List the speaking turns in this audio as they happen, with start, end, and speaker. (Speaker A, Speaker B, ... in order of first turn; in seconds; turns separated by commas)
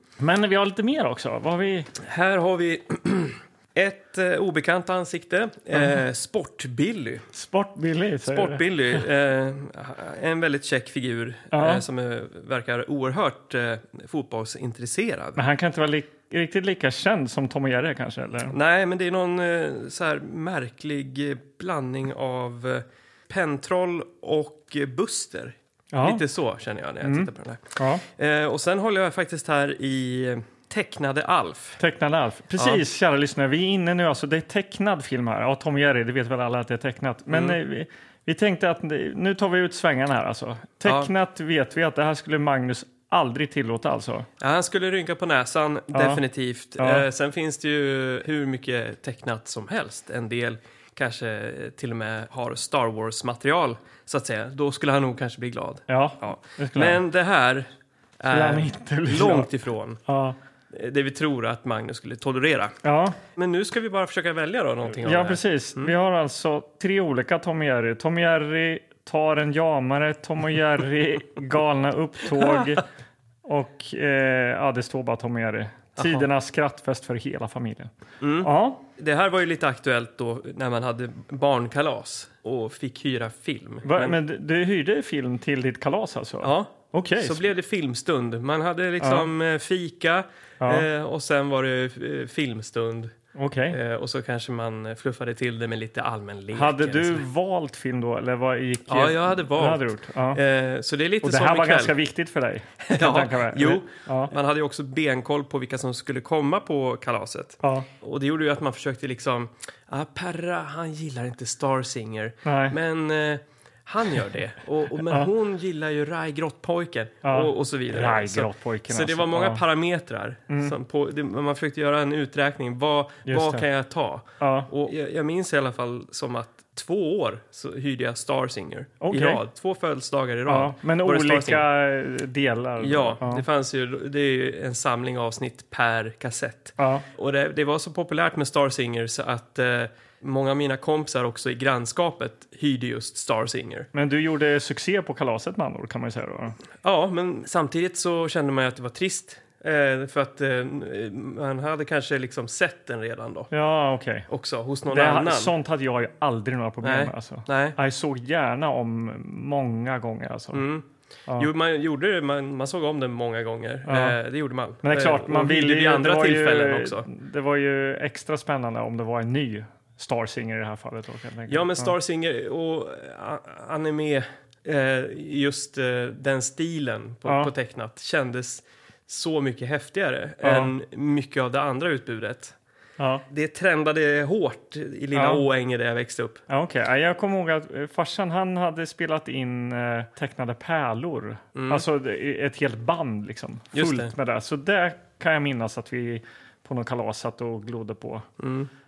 Speaker A: 0.2-1.9, Speaker B: 2.0-7.2, Speaker A: 7.3-8.6, Speaker B: 8.2-15.4, Speaker A: 11.5-11.8, Speaker A: 15.3-18.5, Speaker B: 18.5-31.8, Speaker A: 25.9-26.2, Speaker A: 27.0-28.0, Speaker A: 31.8-44.3, Speaker B: 32.6-32.8, Speaker B: 37.3-37.6, Speaker B: 40.8-41.1, Speaker B: 44.4-57.7, Speaker A: 45.9-46.2, Speaker A: 46.8-47.0, Speaker A: 55.9-57.0, Speaker B: 58.2-60.0, Speaker A: 58.3-59.5, Speaker A: 60.1-60.4, Speaker B: 60.7-62.8, Speaker A: 62.8-63.2, Speaker B: 63.3-65.9, Speaker A: 65.0-72.8, Speaker A: 73.4-77.9, Speaker B: 76.0-76.3, Speaker B: 78.2-84.2, Speaker A: 78.4-78.8, Speaker A: 83.8-87.4, Speaker B: 86.4-93.1, Speaker A: 89.0-89.3, Speaker A: 90.6-90.8, Speaker A: 93.3-93.8, Speaker B: 93.7-97.2, Speaker A: 96.5-100.4, Speaker B: 98.9-102.0, Speaker A: 101.2-104.3, Speaker B: 102.8-131.7, Speaker A: 107.6-107.9, Speaker A: 112.4-112.8, Speaker A: 117.2-119.6, Speaker A: 123.2-123.6, Speaker A: 124.4-124.7, Speaker A: 129.0-129.4, Speaker A: 130.5-133.4, Speaker B: 132.8-143.9, Speaker A: 136.8-137.0, Speaker A: 143.9-146.6, Speaker B: 146.8-153.5, Speaker A: 153.5-154.3, Speaker B: 154.3-155.5, Speaker A: 154.9-160.6, Speaker B: 156.8-157.8, Speaker B: 160.5-160.8, Speaker B: 161.4-167.1, Speaker A: 163.8-164.2, Speaker A: 164.8-171.9, Speaker B: 171.5-182.5, Speaker A: 177.2-177.5, Speaker A: 180.4-180.7, Speaker A: 183.0-183.2, Speaker B: 183.3-186.4, Speaker A: 185.1-185.4, Speaker A: 186.5-198.3, Speaker B: 191.5-191.8, Speaker B: 193.7-194.1, Speaker B: 198.4-198.7